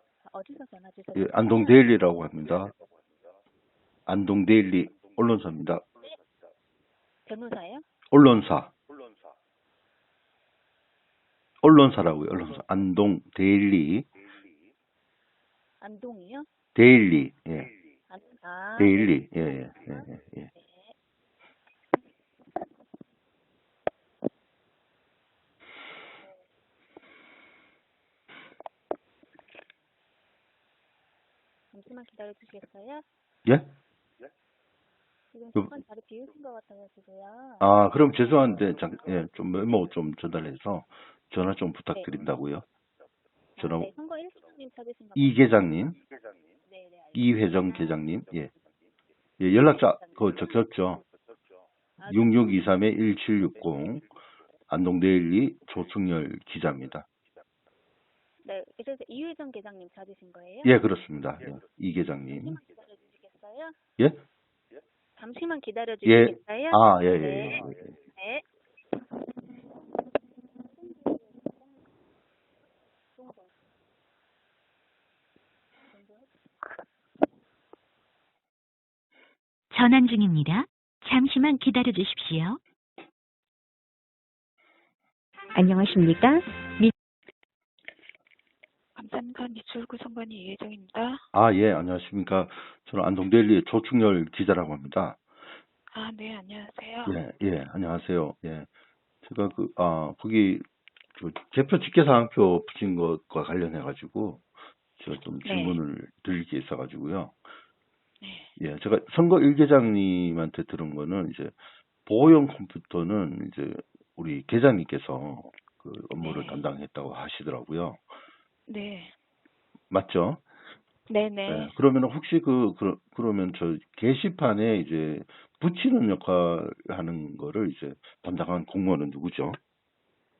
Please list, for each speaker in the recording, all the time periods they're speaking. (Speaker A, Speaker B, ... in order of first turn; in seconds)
Speaker A: 0.2-1.9, 7.3-7.8, 15.8-16.5, 18.1-20.9, 31.7-33.0, 35.3-37.7, 43.6-45.8, 46.6-48.0, 49.7-50.5, 52.0-52.7, 58.4-60.8, 62.3-63.8, 65.2-68.4, 70.7-71.8, 73.2-73.5, 75.9-76.4
Speaker B: 1.1-2.7, 4.1-5.8, 8.1-8.7, 11.6-14.1, 16.8-17.7, 18.8-20.5, 37.6-42.6, 43.6-43.9, 45.1-46.0, 47.1-48.5, 49.4-51.0, 52.1-54.1, 54.7-57.1, 60.6-62.6, 66.0-67.9, 91.3-95.2, 97.1-98.7, 99.2-100.6, 101.2-104.5, 105.0-107.4, 108.6-118.0, 119.9-120.4, 121.5-129.6
Speaker C: 79.7-82.6, 85.6-86.9
Speaker D: 89.0-91.2, 95.9-97.2, 105.4-105.8, 108.2-108.5, 116.2-116.7, 118.7-119.2, 121.1-121.7